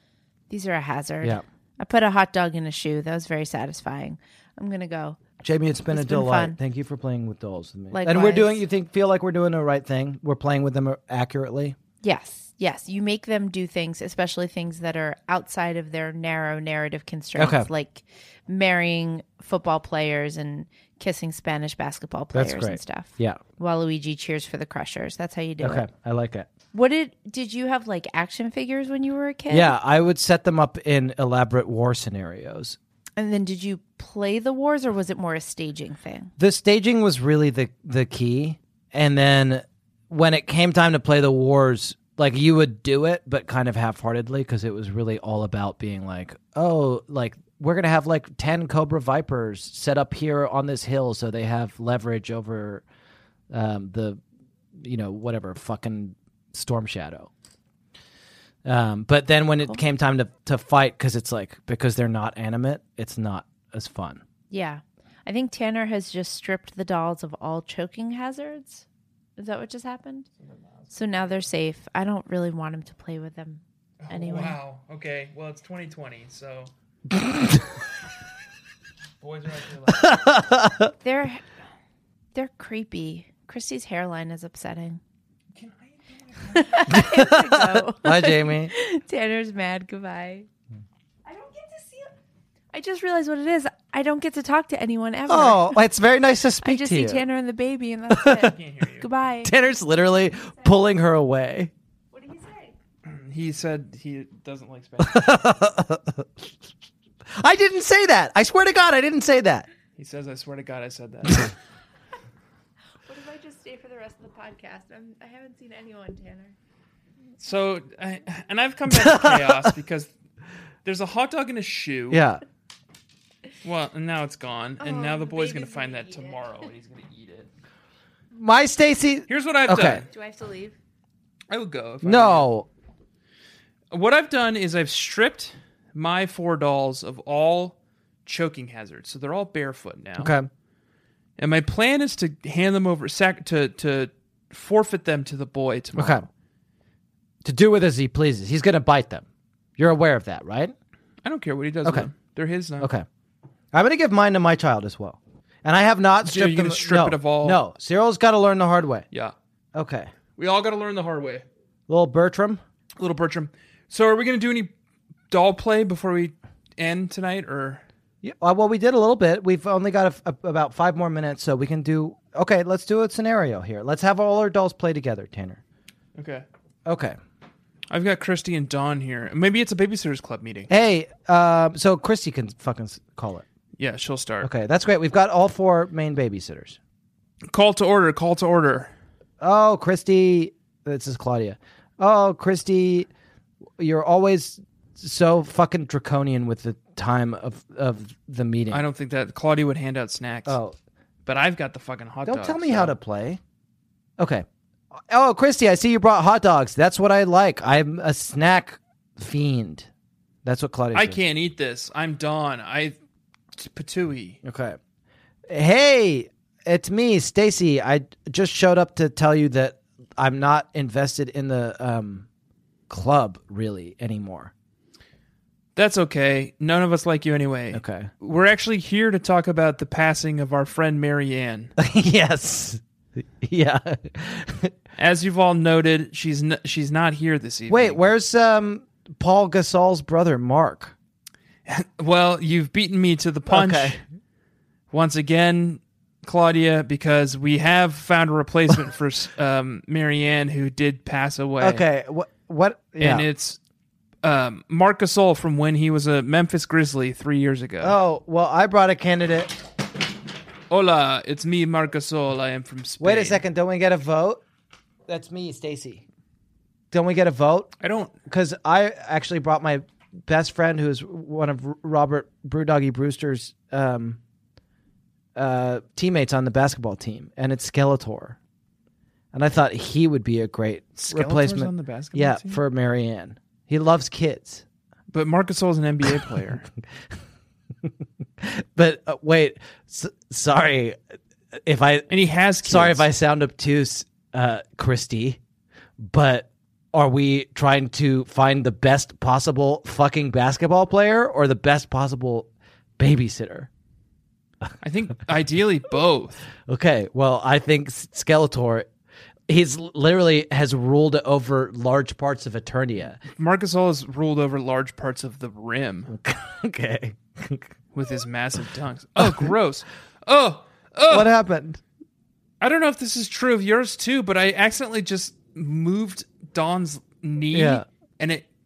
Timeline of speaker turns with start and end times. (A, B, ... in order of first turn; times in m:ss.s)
0:00.5-0:05.2 A
0:05.4-0:11.8 B
0:05.9-0:06.6 A
0:07.9-0:08.6 A
0:12.0-0:25.9 A
0:17.4-0:17.7 B
0:22.3-0:23.4 B
0:25.6-0:26.5 B
0:26.7-0:29.7 A
0:29.5-0:32.8 B
0:33.2-0:36.3 A
0:36.4-0:52.8 B
0:53.5-0:54.2 B
0:54.7-0:57.3 B
0:58.6-1:04.2 B
1:04.5-1:08.8 A
1:09.4-1:10.3 A
1:10.4-1:11.5 C
1:10.9-1:14.6 A
1:14.0-1:16.7 C
1:17.1-1:17.6 B
1:19.2-1:20.3 C
1:20.0-1:20.9 B
1:21.0-1:21.4 A
1:22.3-1:25.0 A
1:25.5-1:27.0 C
1:26.5-1:30.5 A
1:26.9-1:28.7 B
1:31.2-1:32.1 A
1:32.7-1:35.8 A
1:35.3-1:37.2 B
1:36.6-1:39.5 A
1:38.1-1:38.5 B
1:38.4-1:39.1 C
1:39.4-1:41.7 B
1:42.1-1:42.7 A
1:43.0-1:45.3 C
1:45.0-1:46.4 B
1:47.3-1:49.7 B
1:50.0-1:51.5 C
1:53.0-1:56.5 A
1:57.4-2:00.1 C
1:58.9-1:59.7 B
2:00.8-2:02.2 C
2:02.1-2:02.4 B
2:03.6-2:07.5 C
2:04.8-2:06.4 A
2:08.3-2:10.0 B
2:09.3-2:10.1 C
2:10.1-2:10.7 A
2:11.5-2:12.5 C
2:12.0-2:12.7 B
2:13.9-2:20.3 C
2:20.2-2:20.5 B
2:21.4-2:26.3 C
2:26.0-2:26.2 B
2:27.4-2:29.2 B
2:29.8-2:30.7 B
2:31.2-2:32.9 C
2:32.8-2:33.0 B
2:33.7-2:39.0 B
2:36.2-2:37.6 C
2:39.7-2:40.1 B
2:40.4-2:41.4 C
2:41.9-2:42.6 B
2:43.0-2:44.7 C
2:45.3-2:47.8 C
2:48.2-2:55.6 B
2:56.2-2:56.4 C
2:56.8-2:57.2 B
2:57.9-3:00.7 C
3:00.7-3:03.4 B
3:03.8-3:04.5 C
3:04.4-3:06.8 B
3:07.5-3:08.9 C
3:09.4-3:13.1 B
3:13.8-3:18.8 B
3:18.7-3:20.6 C
3:20.4-3:20.8 B
3:21.2-3:22.9 C
3:22.2-3:23.4 B
3:24.2-3:24.4 B
3:25.1-3:29.9 B
3:30.4-3:31.2 B
3:30.9-3:33.0 C
3:33.6-3:34.4 C
3:34.4-3:34.8 B
3:35.5-3:42.2 B
3:42.9-3:44.5 B
3:45.8-3:51.7 C
3:47.7-3:48.1 B
3:51.8-3:54.7 B
3:55.0-3:58.0 C
3:57.7-4:00.9 B
4:01.6-4:04.0 C
4:03.5-4:04.0 B
4:04.9-4:11.8 C
4:11.6-4:13.3 B
4:13.0-4:13.6 C
4:14.2-4:18.0 C
4:17.8-4:19.6 B
4:20.7-4:23.4 C
4:23.0-4:24.4 B
4:25.1-4:26.0 B
4:26.9-4:27.7 B
4:27.8-4:28.1 C
4:28.2-4:34.2 B
4:35.3-4:38.4 B
4:39.3-4:44.6 B
4:41.0-4:42.6 C
4:45.1-4:46.7 C
4:48.4-4:51.0 B
4:51.6-4:52.1 B
4:52.1-4:53.1 C
4:52.6-4:55.4 B
4:56.0-5:03.7 B
5:04.8-5:06.4 C
5:06.7-5:08.9 B
5:09.5-5:13.2 B
5:13.3-5:16.1 C
5:16.1-5:17.7 B
5:17.9-5:21.3 C
5:19.2-5:19.5 B
5:21.1-5:21.8 B
5:22.6-5:28.5 C
5:27.5-5:27.8 B